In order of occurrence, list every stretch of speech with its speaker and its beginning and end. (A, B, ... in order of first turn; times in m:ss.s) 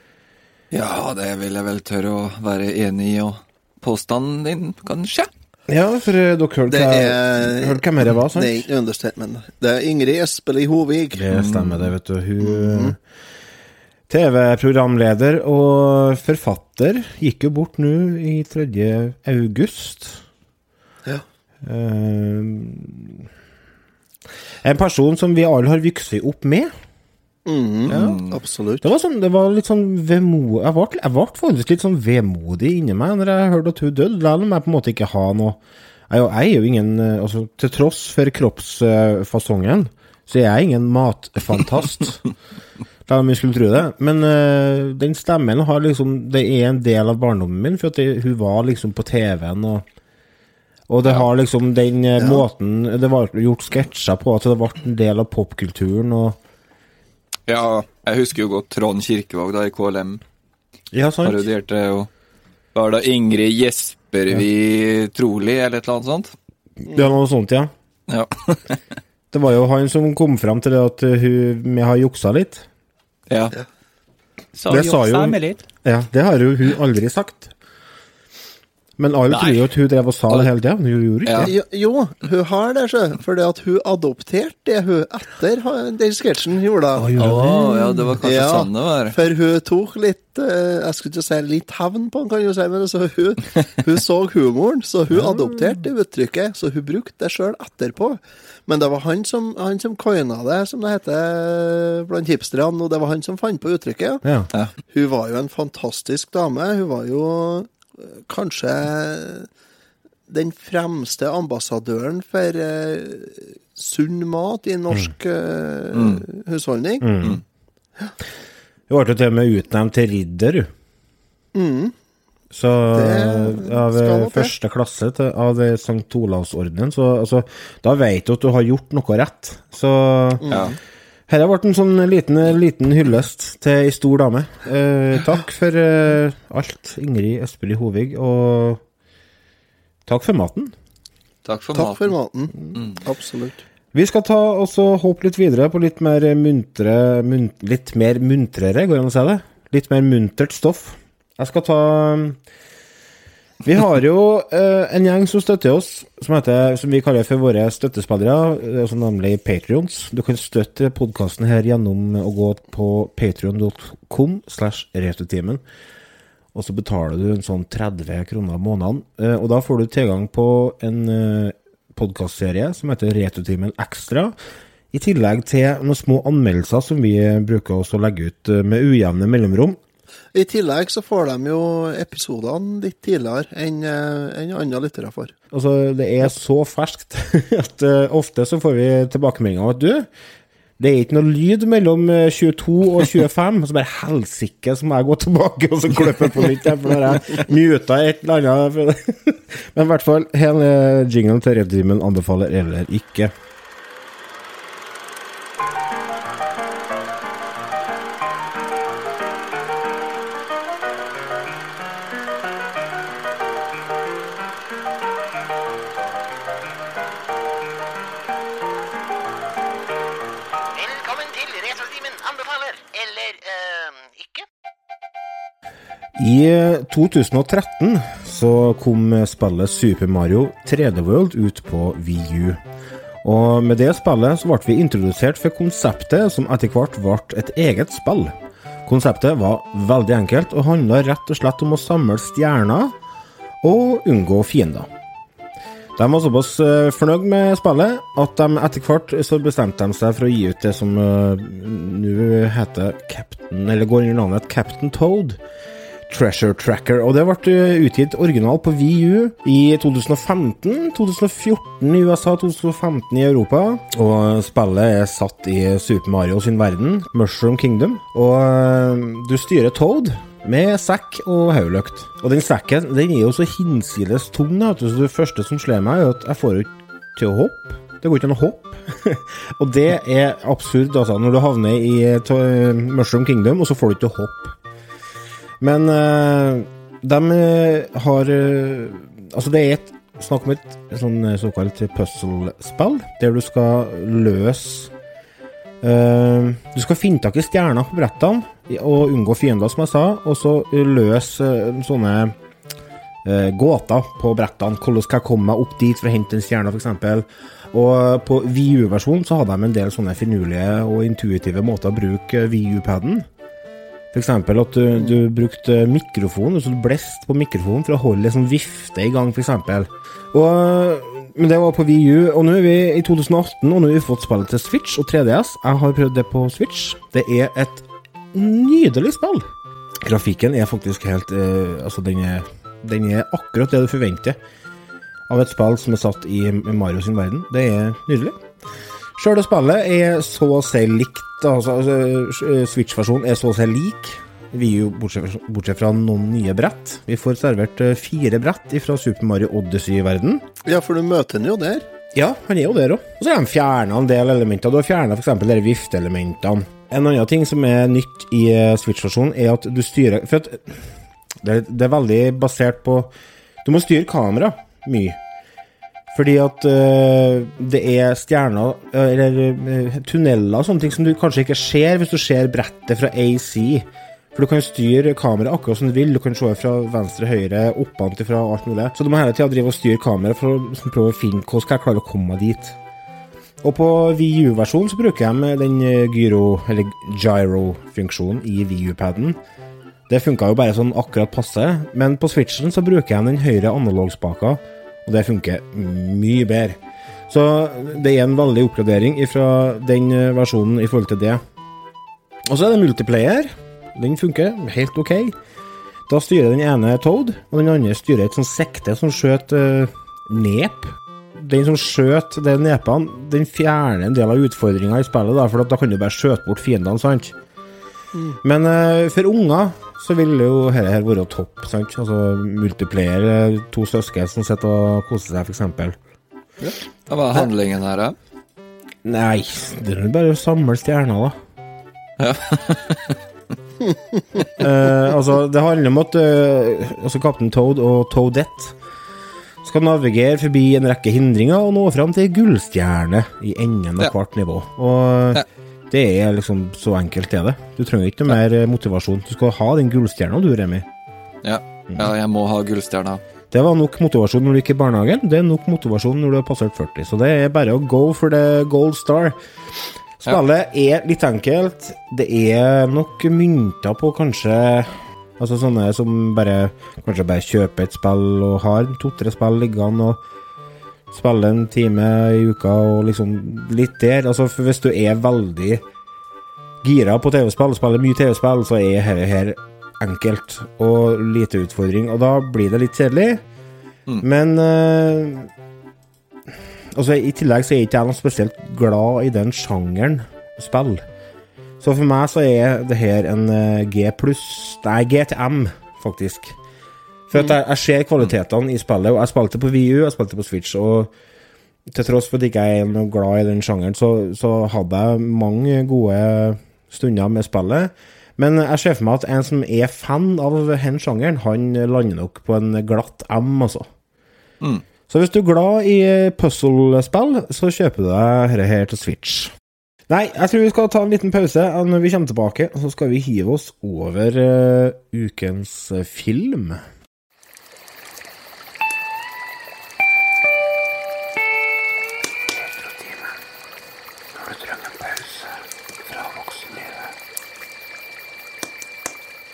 0:00.7-0:05.3 A
0:05.7-0:08.7 B
0:06.7-0:11.2 C
0:11.2-0:13.0 B
0:11.3-0:11.9 A
0:12.4-0:13.0 C
0:14.1-0:20.2 B
0:21.6-0:23.3 B
0:24.6-0:26.7 B
0:27.5-0:28.9 C
0:27.9-0:28.2 B
0:27.9-0:28.4 A
0:28.8-0:42.3 B
0:43.1-0:49.8 B
0:50.9-0:56.4 B
0:57.5-1:00.2 A
1:00.9-1:01.5 B
1:01.2-1:02.1 A
1:02.8-1:06.3 A
1:06.8-1:07.7 B
1:08.1-1:08.8 A
1:09.3-1:12.7 B
1:13.3-1:13.6 A
1:14.6-1:15.6 A
1:14.7-1:17.5 B
1:19.0-1:21.5 B
1:19.3-1:19.7 A
1:21.2-1:21.5 A
1:21.4-1:27.1 C
1:27.0-1:28.2 B
1:27.2-1:29.2 A
1:28.2-1:44.2 C
1:35.1-1:35.8 B
1:44.2-1:44.5 B
1:44.9-1:49.5 C
1:50.3-1:57.1 C
1:55.9-1:56.2 A
1:57.0-1:57.4 B
1:58.9-2:00.7 B
2:01.5-2:02.0 C
2:02.5-2:10.5 B
2:02.9-2:04.5 C
2:10.4-2:10.8 C
2:10.5-2:10.8 A
2:11.3-2:18.8 B
2:20.1-2:20.7 B
2:21.4-2:22.1 A
2:21.7-2:23.6 C
2:22.7-2:23.0 A
2:23.9-2:32.4 B
2:33.6-2:45.6 B
2:46.5-2:54.4 B
2:54.9-2:59.8 B
3:00.3-3:05.4 C
3:05.5-3:10.1 B
3:10.8-3:23.3 B
3:46.2-3:52.6 B
3:53.2-3:58.3 B
3:58.9-4:03.0 B
4:03.6-4:04.9 B
4:06.0-4:15.4 B
4:16.1-4:44.6 B
4:45.6-4:54.9 B
4:55.8-5:02.3 B
5:03.2-5:13.3 B
5:14.1-5:29.5 B
5:30.0-5:34.4 B
5:35.3-5:38.4 B
5:39.2-5:50.4 B
5:50.7-5:51.9 C
5:52.1-6:03.1 B
6:03.6-6:05.2 B
6:06.1-6:22.8 B
6:23.6-6:29.4 B
6:30.1-6:41.4 B
6:42.5-6:45.4 B
6:46.1-6:57.4 B
6:58.1-6:58.4 C
6:58.4-7:06.0 B
7:07.1-7:08.2 A
7:09.0-7:11.4 B
7:12.2-7:13.2 A
7:13.9-7:14.2 C
7:14.6-7:18.8 B
7:19.6-7:30.9 B
7:31.4-7:33.2 A
7:33.5-7:39.4 B
7:40.2-7:50.2 B
7:51.1-7:55.8 B
7:56.8-8:03.4 B
8:04.2-8:05.5 B
8:06.9-8:11.0 B
8:11.8-8:16.6 B
8:17.3-8:21.1 B
8:21.9-8:33.9 B
8:35.1-8:39.5 B
8:40.1-8:46.8 B
8:52.5-8:53.3 B
8:54.4-8:57.1 B